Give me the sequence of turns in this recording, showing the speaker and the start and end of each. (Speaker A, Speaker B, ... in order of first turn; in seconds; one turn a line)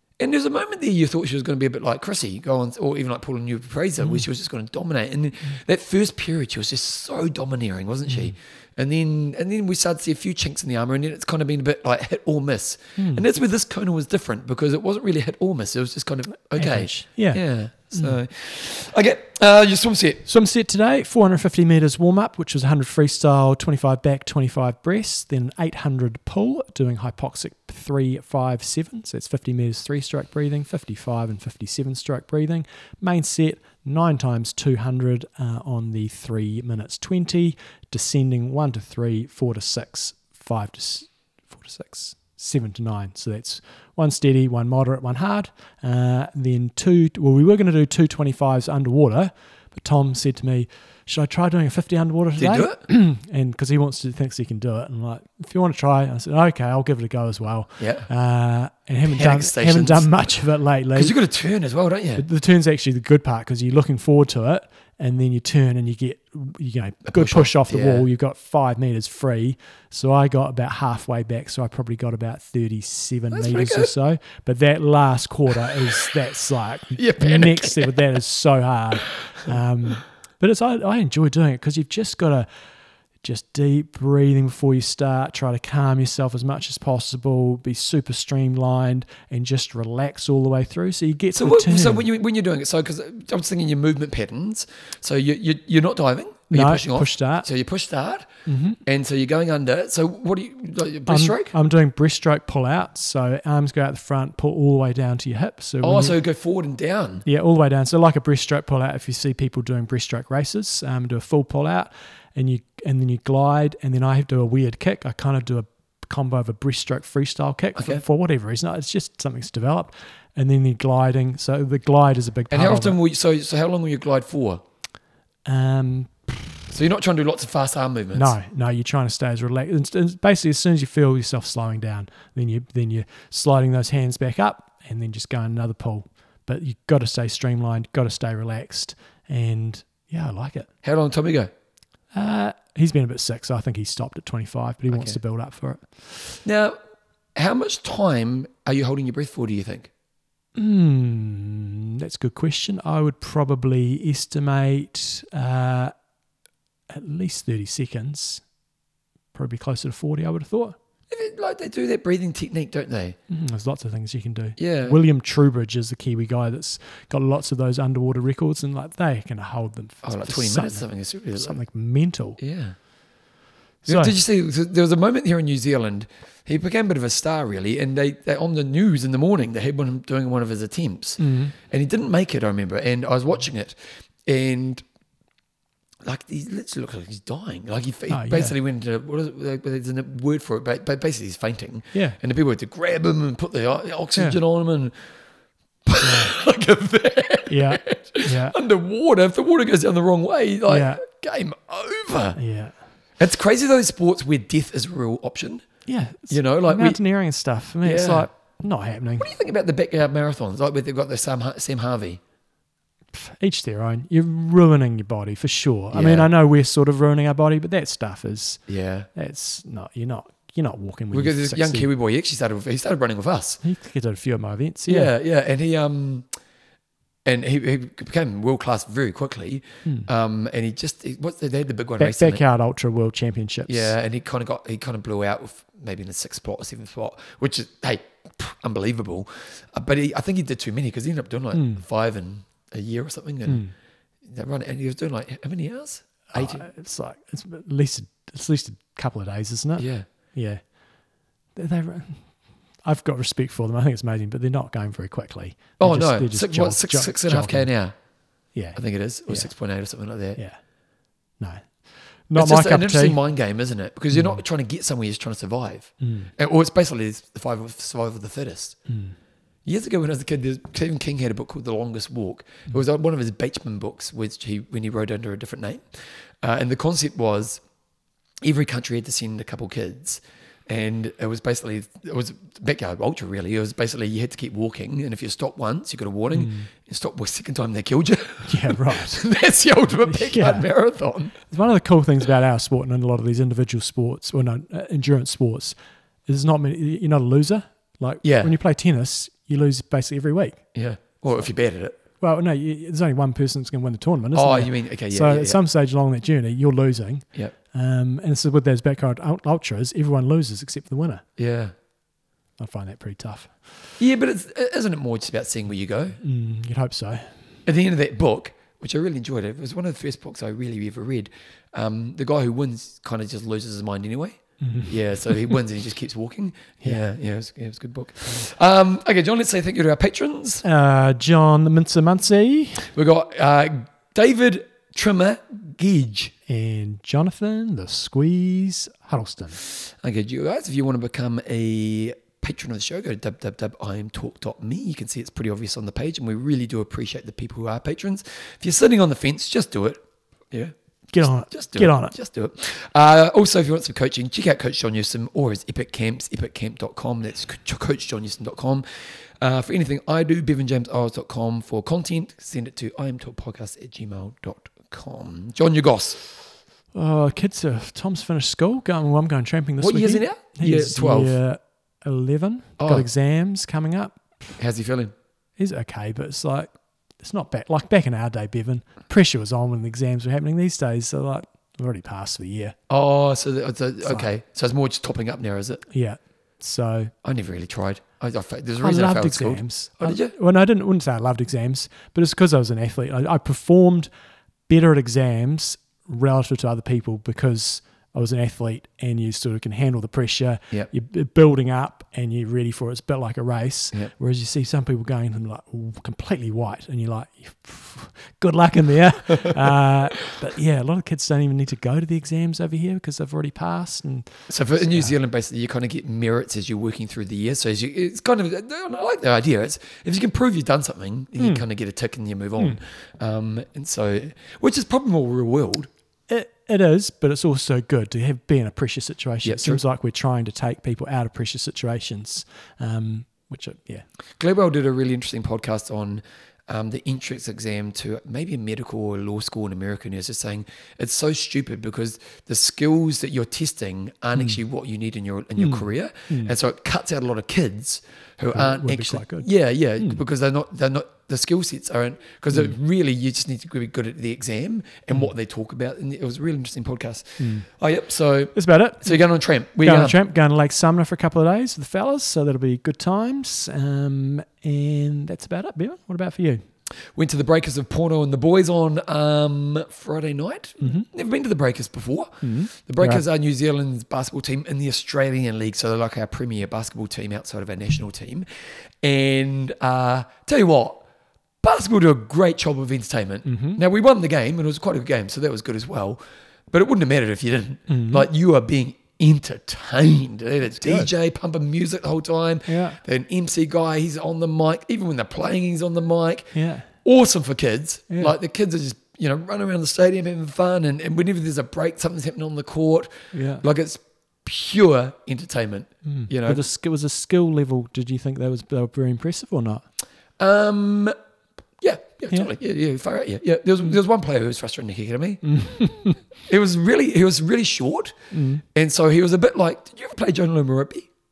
Speaker A: 0.2-20.2
Speaker B: 4.0-4.2
Speaker B: 8.1-8.3
Speaker B: 13.0-13.2
Speaker B: 16.5-18.2
Speaker B: 20.2-61.1
Speaker A: 52.4-52.8
Speaker A: 57.8-58.1
Speaker A: 59.1-60.1
Speaker A: 60.9-62.2
Speaker B: 62.2-82.5
Speaker A: 67.1-68.1
Speaker A: 73.3-73.9
Speaker A: 77.0-78.0
Speaker B: 83.2-92.0
Speaker A: 91.3-98.3
Speaker B: 96.5-97.5
Speaker B: 98.5-98.8
Speaker A: 98.8-101.5
Speaker B: 101.1-106.2
Speaker A: 105.8-107.2
Speaker B: 107.2-123.0
Speaker A: 117.8-118.0
Speaker A: 122.5-124.6
Speaker B: 125.4-126.7
Speaker A: 126.7-128.3
Speaker B: 128.1-140.7
Speaker A: 140.8-141.5
Speaker B: 142.1-146.4
Speaker A: 144.9-145.2
Speaker A: 146.4-146.8
Speaker A: 147.3-149.9
Speaker B: 150.6-155.9
Speaker B: 156.9-158.4
Speaker B: 159.3-160.8
Speaker A: 161.1-163.2
Speaker B: 163.3-172.4
Speaker A: 164.6-165.0
Speaker A: 170.0-171.6
Speaker A: 172.4-172.8
Speaker B: 173.8-174.1
Speaker A: 173.8-184.8
Speaker B: 181.2-181.5
Speaker A: 186.0-195.2
Speaker B: 188.1-188.5
Speaker B: 191.9-192.2
Speaker A: 195.8-202.4
Speaker B: 196.0-196.4
Speaker B: 197.5-198.6
Speaker B: 200.7-201.0
Speaker B: 202.3-202.8
Speaker A: 203.2-205.7
Speaker B: 205.9-209.3
Speaker A: 206.3-207.0
Speaker A: 207.8-208.3
Speaker A: 209.2-212.2
Speaker B: 213.1-221.9
Speaker A: 215.9-216.3
Speaker A: 218.7-219.1
Speaker A: 221.1-223.6
Speaker B: 223.6-225.1
Speaker A: 224.9-226.3
Speaker A: 227.2-232.4
Speaker B: 232.0-233.9
Speaker A: 233.7-243.7
Speaker B: 241.5-241.8
Speaker B: 243.4-243.7
Speaker A: 244.2-246.7
Speaker B: 246.3-250.8
Speaker A: 249.8-250.1
Speaker B: 251.5-257.7
Speaker A: 255.8-258.0
Speaker B: 258.5-259.5
Speaker A: 258.7-260.4
Speaker B: 260.4-260.6
Speaker B: 261.4-263.2
Speaker A: 262.3-268.8
Speaker B: 264.1-264.4
Speaker B: 266.0-266.3
Speaker B: 268.9-269.1
Speaker A: 269.6-277.6
Speaker A: 278.4-291.4
Speaker B: 286.3-286.7
Speaker B: 288.4-289.3
Speaker B: 290.1-290.8
Speaker B: 291.3-311.2
Speaker A: 298.2-298.5
Speaker A: 300.7-302.0
Speaker A: 304.3-305.6
Speaker A: 311.4-311.7
Speaker B: 312.6-313.8
Speaker A: 314.0-316.2
Speaker B: 316.2-317.4
Speaker A: 317.6-330.6
Speaker B: 324.6-325.5
Speaker B: 330.6-332.9
Speaker A: 332.9-336.3
Speaker B: 336.5-339.6
Speaker A: 339.6-366.2
Speaker B: 351.1-352.1
Speaker B: 366.9-374.6
Speaker A: 369.8-371.4
Speaker A: 372.8-373.1
Speaker A: 374.6-375.1
Speaker B: 375.6-382.8
Speaker A: 382.9-385.9
Speaker B: 384.0-384.3
Speaker B: 385.9-387.1
Speaker A: 387.2-390.3
Speaker B: 388.8-394.1
Speaker B: 394.7-415.1
Speaker A: 414.5-425.9
Speaker B: 421.4-421.6
Speaker B: 426.3-434.1
Speaker A: 429.4-429.8
Speaker A: 434.4-460.2
Speaker B: 445.6-446.5
Speaker B: 448.5-450.2
Speaker B: 452.5-452.8
Speaker B: 457.4-457.7
Speaker B: 458.5-466.6
Speaker A: 467.1-478.4
Speaker B: 470.8-471.1
Speaker B: 472.4-473.2
Speaker A: 479.0-481.0
Speaker A: 481.6-506.6
Speaker B: 483.4-483.8
Speaker B: 487.9-488.3
Speaker B: 490.8-491.1
Speaker B: 492.6-493.0
Speaker B: 496.5-496.9
Speaker B: 503.3-503.6
Speaker B: 506.0-509.9
Speaker A: 510.4-511.1
Speaker A: 511.8-521.1
Speaker B: 515.4-516.2
Speaker B: 518.3-518.6